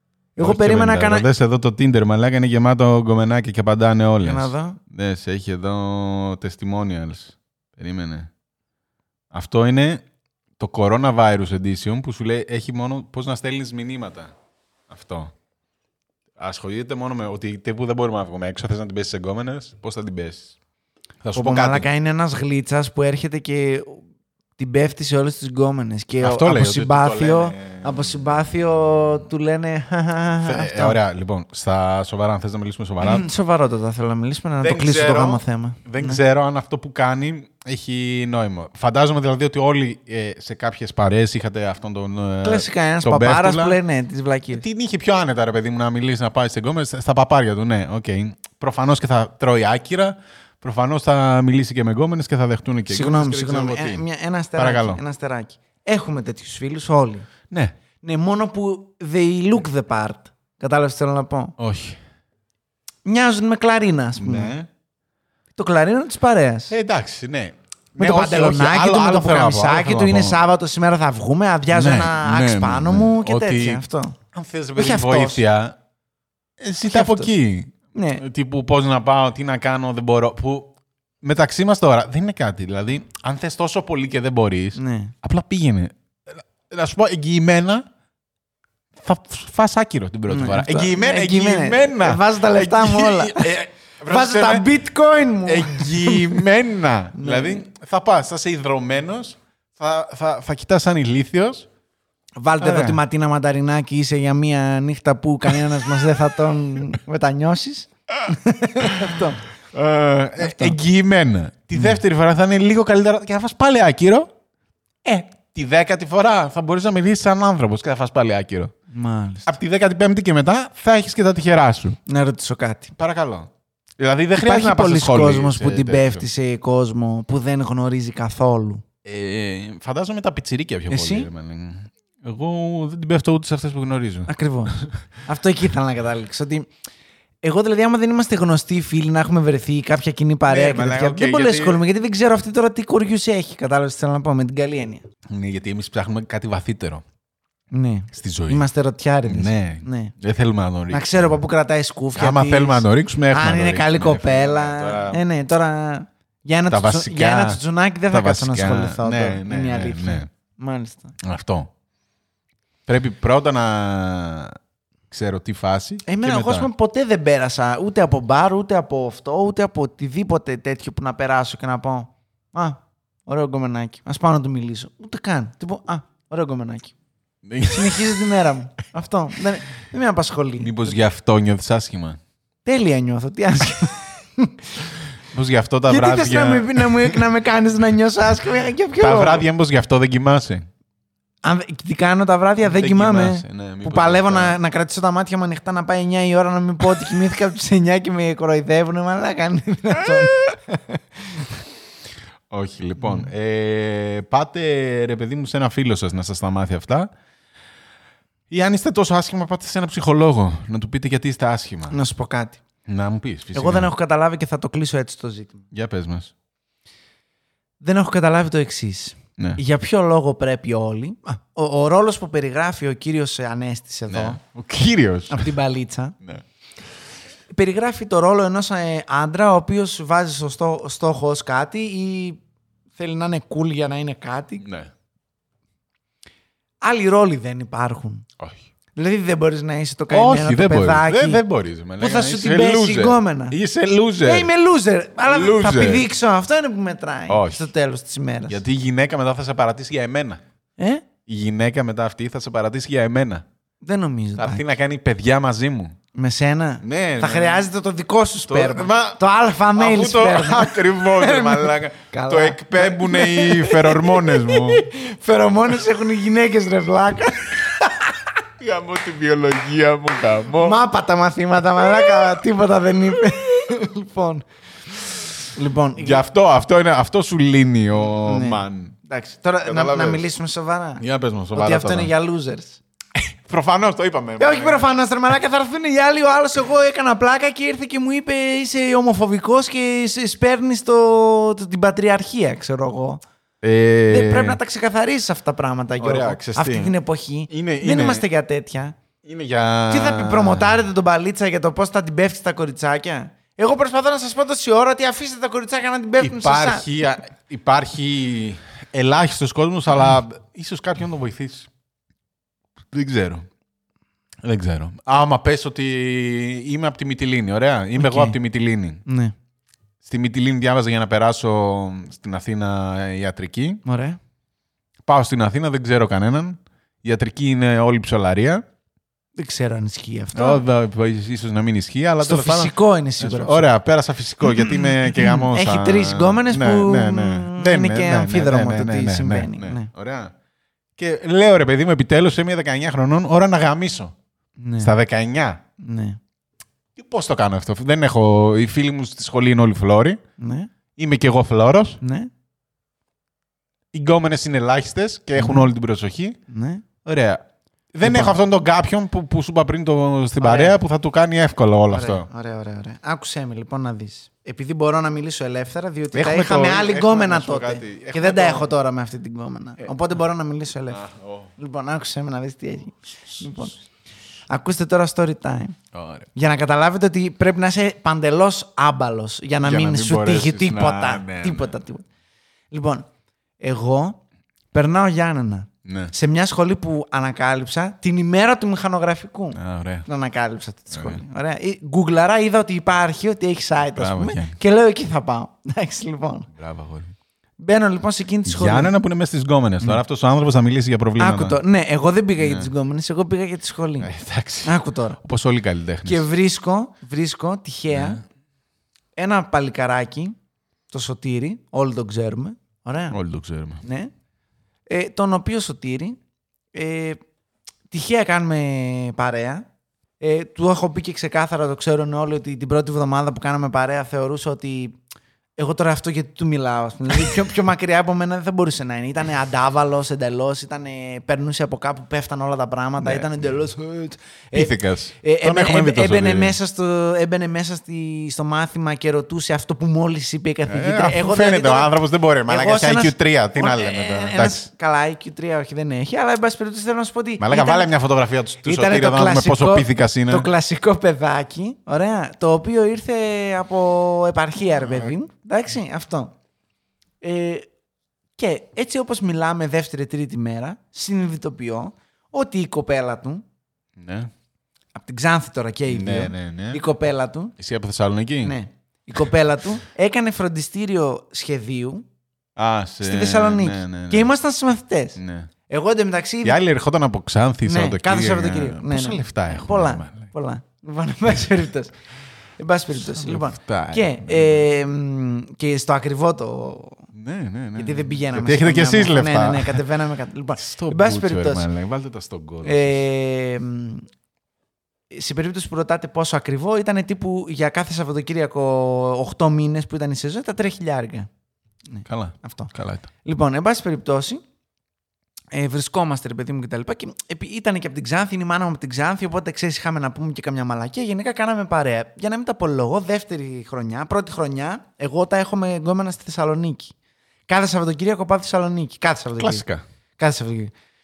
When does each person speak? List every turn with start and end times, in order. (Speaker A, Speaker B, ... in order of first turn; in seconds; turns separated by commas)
Speaker A: 0.4-1.3, Speaker B: 0.4-8.3, Speaker A: 4.2-4.8, Speaker B: 9.3-10.1, Speaker B: 10.6-14.3, Speaker B: 14.9-15.3, Speaker B: 16.4-20.6, Speaker B: 21.2-21.9, Speaker A: 21.4-24.0, Speaker A: 24.6-31.0, Speaker B: 26.2-28.1, Speaker B: 30.4-33.2, Speaker A: 33.0-36.2, Speaker B: 34.6-43.8, Speaker A: 42.4-44.6, Speaker B: 44.5-54.0, Speaker A: 52.9-57.3, Speaker B: 54.6-55.0, Speaker A: 58.0-61.5, Speaker B: 61.6-62.0, Speaker A: 63.0-64.5, Speaker B: 64.2-64.7, Speaker A: 65.5-66.8, Speaker B: 66.7-70.4, Speaker A: 68.0-74.2, Speaker B: 71.7-75.8, Speaker A: 74.8-75.4, Speaker B: 76.6-87.9, Speaker A: 76.9-77.3, Speaker A: 77.9-78.2, Speaker A: 84.8-85.1, Speaker B: 89.0-94.7, Speaker A: 90.3-96.5, Speaker B: 95.5-101.7, Speaker A: 97.2-97.6, Speaker A: 102.4-109.4, Speaker B: 102.6-103.0, Speaker B: 108.8-109.2, Speaker B: 109.7-114.3, Speaker A: 110.4-110.8, Speaker B: 115.0-118.8, Speaker A: 118.9-119.5, Speaker B: 119.5-122.0, Speaker A: 122.1-123.0, Speaker B: 123.0-126.2, Speaker A: 124.3-128.8, Speaker B: 129.1-134.9, Speaker A: 130.9-131.3, Speaker A: 134.3-136.7, Speaker A: 137.4-145.1, Speaker B: 140.5-141.8, Speaker B: 145.3-147.0, Speaker A: 147.7-150.1, Speaker B: 148.1-148.7, Speaker B: 149.3-151.4, Speaker A: 150.9-161.2, Speaker B: 152.2-155.2, Speaker B: 156.7-160.3, Speaker B: 161.2-161.7, Speaker B: 162.9-164.6, Speaker B: 165.1-166.7, Speaker A: 166.1-176.9, Speaker B: 177.4-178.3, Speaker A: 177.7-180.9, Speaker B: 180.6-182.2, Speaker A: 182.7-184.7, Speaker B: 185.3-187.2, Speaker A: 185.9-189.4, Speaker B: 189.0-190.7, Speaker A: 191.4-201.5, Speaker B: 192.7-194.6, Speaker B: 202.5-207.1, Speaker A: 203.0-203.3, Speaker B: 208.5-212.0, Speaker A: 211.9-212.6, Speaker B: 212.9-213.9, Speaker A: 213.5-215.6, Speaker B: 215.7-216.3, Speaker A: 217.8-224.4, Speaker B: 224.1-225.5, Speaker A: 225.3-226.2, Speaker A: 227.5-232.4, Speaker A: 233.0-234.7, Speaker B: 234.6-234.9, Speaker A: 236.8-238.2, Speaker B: 238.4-238.7, Speaker A: 239.0-241.4, Speaker B: 240.1-244.5, Speaker A: 242.0-243.6, Speaker A: 244.2-248.6, Speaker B: 245.3-246.1, Speaker B: 247.3-247.6, Speaker B: 248.5-250.4, Speaker A: 250.8-251.1, Speaker B: 251.3-253.5, Speaker A: 253.8-254.6, Speaker B: 254.4-256.0, Speaker A: 256.1-268.3, Speaker B: 256.8-257.7, Speaker B: 258.5-259.2, Speaker B: 259.7-264.9, Speaker B: 268.6-270.8, Speaker A: 270.6-274.4, Speaker A: 275.6-276.2, Speaker B: 276.0-279.0, Speaker A: 278.1-281.0, Speaker B: 279.6-280.2, Speaker B: 281.0-282.1, Speaker A: 281.5-282.8, Speaker B: 283.2-284.9, Speaker A: 284.4-293.2, Speaker B: 293.6-294.6, Speaker A: 294.1-299.0, Speaker B: 296.0-296.9, Speaker B: 297.5-298.2, Speaker B: 299.2-300.8, Speaker A: 299.9-306.9, Speaker B: 306.2-311.7, Speaker B: 312.9-313.5, Speaker B: 314.4-319.0, Speaker A: 318.0-318.4, Speaker A: 319.1-319.4, Speaker B: 320.0-323.8, Speaker A: 323.9-324.2, Speaker B: 325.1-328.6, Speaker A: 329.4-330.6, Speaker B: 330.3-340.3, Speaker A: 332.2-333.7, Speaker A: 334.4-339.9, Speaker B: 341.0-344.1, Speaker A: 344.6-344.9, Speaker B: 344.8-345.6, Speaker A: 345.8-346.2, Speaker B: 347.0-350.2, Speaker A: 350.4-350.7, Speaker B: 351.0-352.0, Speaker A: 352.0-352.3, Speaker B: 353.9-356.4, Speaker A: 355.4-355.7, Speaker A: 356.5-356.8, Speaker B: 357.0-362.3, Speaker A: 358.0-358.3, Speaker A: 360.4-360.8, Speaker A: 361.9-371.0, Speaker B: 366.1-368.7, Speaker B: 370.9-371.5, Speaker A: 371.6-373.8, Speaker A: 374.5-375.8, Speaker B: 375.9-376.3, Speaker A: 376.4-382.1, Speaker B: 379.6-381.8, Speaker A: 382.7-383.1, Speaker A: 383.6-384.2, Speaker A: 384.7-396.5, Speaker B: 385.9-386.1, Speaker B: 389.5-390.1, Speaker B: 390.9-391.2, Speaker B: 394.0-394.6, Speaker B: 396.6-397.1, Speaker A: 397.6-398.9, Speaker B: 398.5-401.6, Speaker A: 401.2-404.1, Speaker B: 402.4-402.7, Speaker B: 404.0-406.3, Speaker A: 404.6-405.2, Speaker A: 406.1-408.2, Speaker B: 407.9-408.2, Speaker A: 409.2-410.4, Speaker A: 410.9-413.2, Speaker B: 413.1-413.8, Speaker A: 413.8-414.1, Speaker A: 414.9-416.2, Speaker A: 416.7-417.2, Speaker A: 417.9-419.7, Speaker A: 420.2-425.0, Speaker A: 425.6-447.9, Speaker B: 433.0-433.3, Speaker B: 434.5-436.6, Speaker B: 440.7-444.6, Speaker B: 447.4-450.5, Speaker A: 448.6-456.3, Speaker A: 457.2-457.7, Speaker A: 458.4-463.4, Speaker B: 464.0-464.3, Speaker A: 464.9-467.5, Speaker B: 465.9-466.8, Speaker B: 467.6-468.6, Speaker A: 468.4-472.1, Speaker B: 472.6-474.3, Speaker A: 473.0-476.6, Speaker B: 475.2-475.5, Speaker B: 476.4-480.3, Speaker A: 477.6-481.9, Speaker A: 482.6-487.0, Speaker B: 483.1-484.7, Speaker B: 487.1-489.8, Speaker A: 487.8-491.7, Speaker B: 490.6-493.0, Speaker A: 492.6-494.1, Speaker A: 495.1-501.3, Speaker A: 501.9-502.7, Speaker B: 502.1-503.1, Speaker A: 503.2-504.4, Speaker A: 505.5-516.9, Speaker A: 517.5-519.6, Speaker B: 519.4-519.8, Speaker A: 520.2-520.7